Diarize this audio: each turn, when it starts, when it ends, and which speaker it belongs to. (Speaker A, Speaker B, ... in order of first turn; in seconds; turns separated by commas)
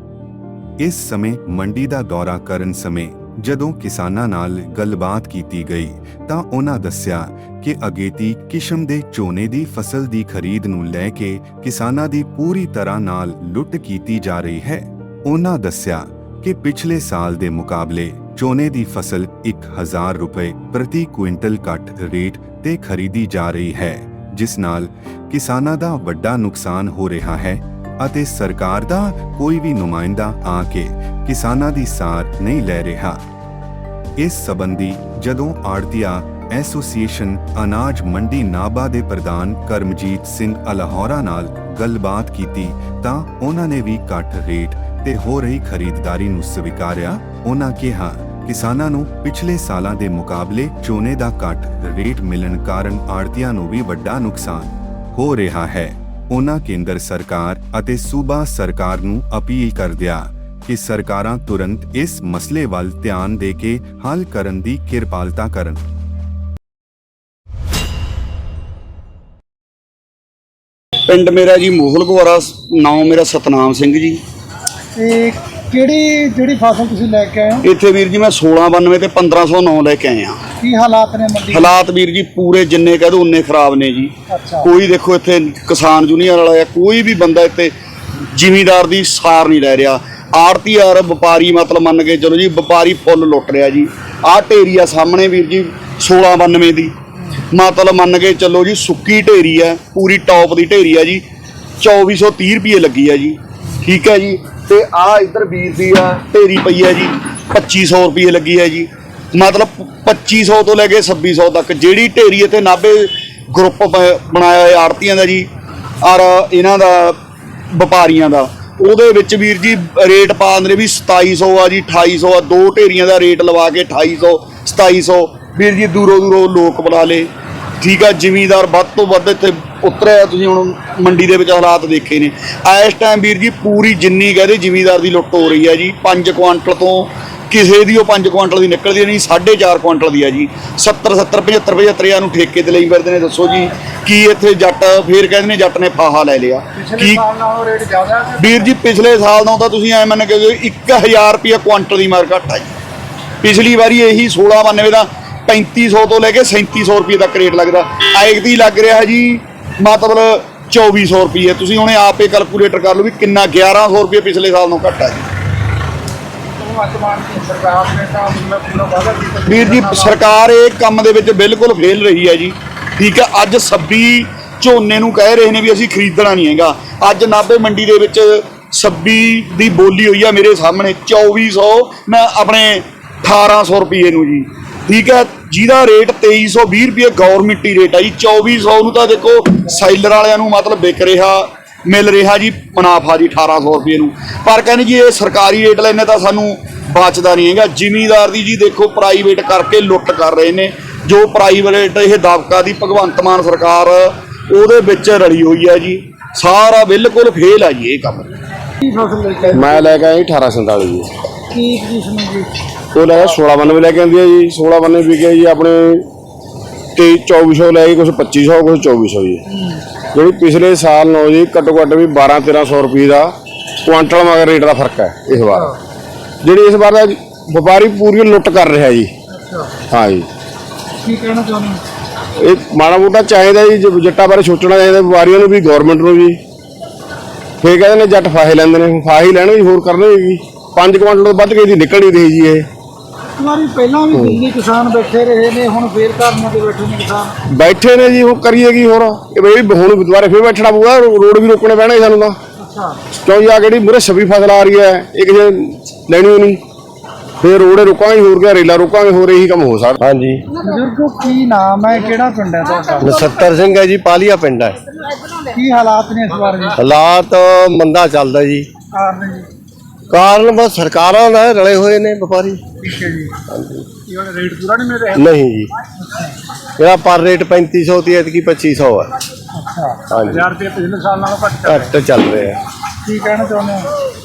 Speaker A: 0.8-33.2, Speaker A: 34.2-65.8, Speaker B: 71.1-74.2, Speaker C: 75.0-77.7, Speaker B: 77.6-80.4, Speaker C: 80.6-81.7, Speaker B: 81.5-87.7, Speaker C: 84.3-84.7, Speaker B: 88.3-96.9, Speaker B: 97.5-101.2, Speaker B: 101.8-115.5, Speaker B: 116.0-117.2, Speaker B: 117.7-127.3, Speaker B: 127.8-147.2, Speaker C: 146.8-148.7, Speaker B: 148.4-152.7, Speaker B: 153.4-165.3, Speaker C: 166.6-170.2, Speaker B: 169.5-208.3, Speaker C: 208.8-210.0, Speaker D: 209.5-211.1, Speaker C: 211.5-212.5, Speaker D: 212.9-216.1, Speaker D: 217.0-219.4, Speaker D: 220.2-223.3, Speaker D: 223.8-225.7, Speaker D: 226.4-229.1, Speaker C: 229.3-229.7, Speaker D: 229.9-230.3, Speaker C: 231.0-231.8, Speaker D: 232.4-236.4, Speaker D: 237.6-242.7, Speaker C: 243.4-247.3, Speaker D: 244.1-244.4, Speaker D: 247.5-252.4, Speaker C: 252.6-253.0, Speaker D: 253.2-256.6, Speaker D: 257.4-260.0, Speaker E: 260.0-260.4, Speaker C: 260.6-263.2, Speaker E: 263.1-264.8, Speaker C: 265.5-266.7, Speaker E: 266.8-268.7, Speaker C: 268.9-269.5, Speaker E: 270.1-272.6, Speaker C: 272.8-273.4, Speaker E: 273.5-273.9, Speaker C: 274.1-275.2, Speaker E: 275.1-275.7, Speaker E: 276.8-279.1, Speaker C: 279.6-281.8, Speaker E: 280.1-280.5, Speaker E: 281.6-282.6, Speaker C: 283.1-283.9